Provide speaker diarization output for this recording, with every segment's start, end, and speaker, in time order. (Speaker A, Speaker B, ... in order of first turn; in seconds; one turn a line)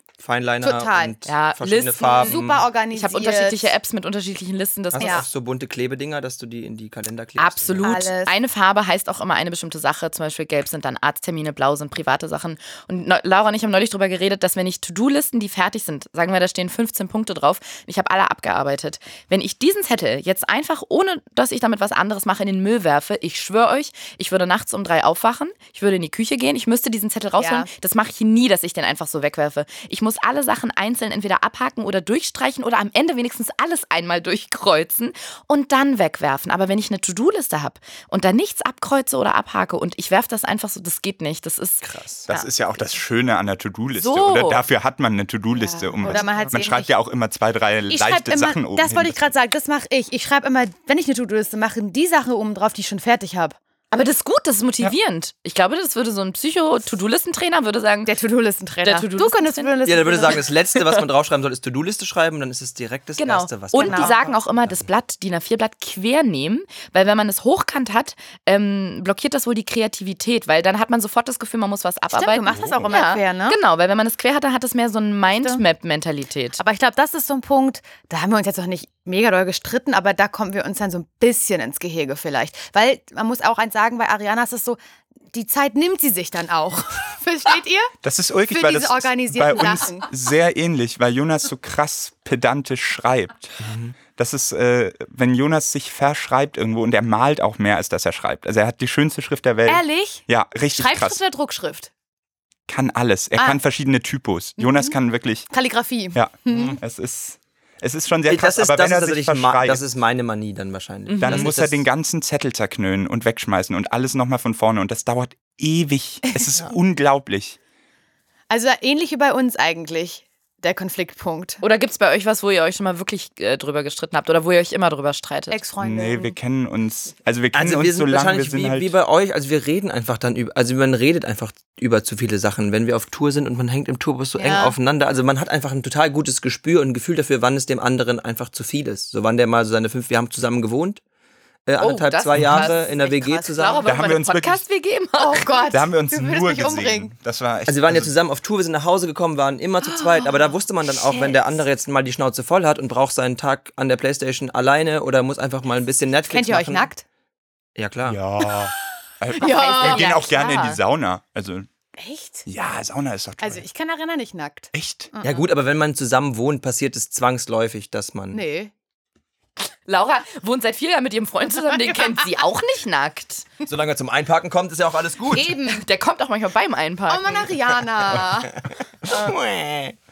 Speaker A: 0.2-2.7
Speaker B: 0.6-1.1
Speaker C: 1.2-5.2
Speaker B: 2.0-3.8
Speaker A: 4.9-8.1
Speaker B: 5.0-5.3
Speaker C: 7.4-42.5
Speaker B: 7.8-8.3
Speaker B: 27.4-27.7
Speaker A: 41.8-42.3
Speaker D: 42.3-49.3
Speaker C: 43.9-44.6
Speaker B: 45.6-46.9
Speaker C: 46.0-46.5
Speaker B: 47.9-53.6
Speaker C: 53.9-58.1
Speaker B: 58.0-60.5
Speaker C: 58.8-60.3
Speaker A: 59.8-64.2
Speaker C: 63.2-76.6
Speaker B: 63.8-64.3
Speaker B: 72.1-73.6
Speaker D: 72.6-72.8
Speaker B: 75.3-75.6
Speaker B: 76.6-84.8
Speaker B: 85.3-87.9
Speaker D: 88.0-101.2
Speaker B: 88.5-90.1
Speaker B: 99.7-101.9
Speaker D: 102.7-105.5
Speaker B: 104.6-105.0
Speaker B: 105.5-106.8
Speaker D: 106.1-109.8
Speaker A: 108.3-111.8
Speaker C: 111.1-111.5
Speaker D: 111.2-117.6
Speaker B: 118.5-121.6
Speaker C: 121.6-125.6
Speaker B: 125.5-126.3
Speaker D: 125.8-128.9
Speaker A: 127.5-141.0
Speaker B: 134.3-134.8
Speaker A: 141.7-143.9
Speaker C: 141.8-142.8
Speaker D: 142.3-142.7
Speaker B: 142.7-143.9
Speaker C: 143.6-145.7
Speaker D: 143.9-144.6
Speaker B: 145.2-147.1
Speaker D: 145.7-148.1
Speaker A: 147.7-156.9
Speaker B: 149.9-151.3
Speaker B: 156.3-157.0
Speaker A: 157.8-158.2
Speaker D: 158.1-161.7
Speaker B: 159.4-160.2
Speaker C: 159.4-160.8
Speaker B: 162.0-162.4
Speaker D: 162.4-163.6
Speaker B: 163.4-165.5
Speaker D: 164.7-165.1
Speaker A: 165.2-168.4
Speaker B: 168.3-168.7
Speaker C: 169.8-173.4
Speaker B: 171.8-172.2
Speaker A: 173.7-175.5
Speaker B: 175.3-175.8
Speaker C: 175.7-177.5
Speaker B: 177.1-178.5
Speaker A: 179.0-180.0